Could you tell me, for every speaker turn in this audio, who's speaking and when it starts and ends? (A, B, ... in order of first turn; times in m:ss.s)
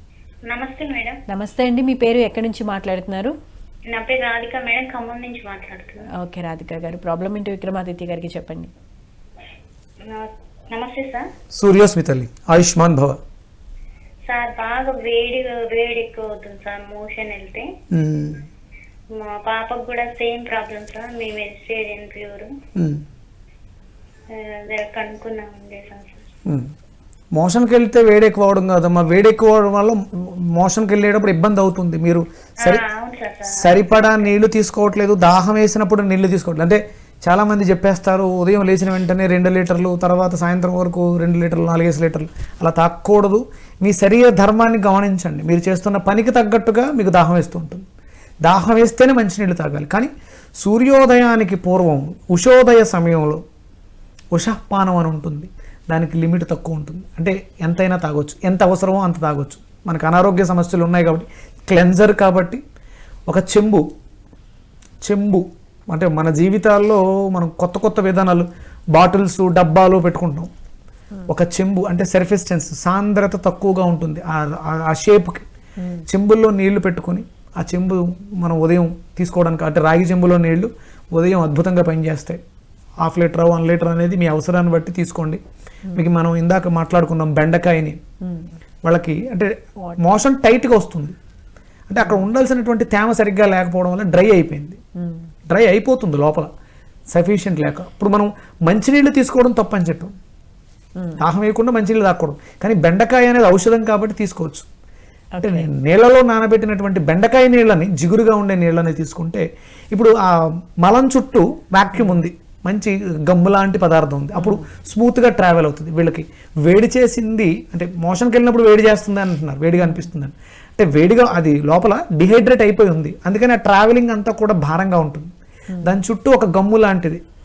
0:00.5-0:01.2 A
0:01.3-0:03.3 B
0:03.9-0:06.0 A
0:06.2-0:08.7 B
0:10.1-0:11.3 A
0:11.5-0:13.2 C
0:14.3-0:17.7 A
0:17.9-0:18.4 C
0:19.1-0:22.5 A
0:24.3-0:26.2 A
0:27.3-0:32.8 C
0:32.6-0:34.3 A
0:33.5-0:47.8 C
0:48.4-0:53.4 C
0:54.3-1:02.6 C
1:03.3-1:03.8 C
1:05.0-1:10.5 C
1:11.3-1:15.4 C
1:16.1-1:22.4 C
1:23.0-1:25.4 C
1:25.9-1:28.0 C
1:28.2-1:28.5 B
1:28.8-1:31.1 C
1:31.9-1:34.8 C
1:32.0-1:32.2 B
1:35.0-1:35.3 B
1:35.5-1:36.5 C
1:37.1-1:40.1 C
1:41.2-1:44.7 C
1:45.3-1:45.7 B
1:45.4-1:50.3 C
1:50.8-2:05.3 C
1:51.9-1:52.2 B
1:54.3-1:54.6 B
2:05.8-2:07.2 C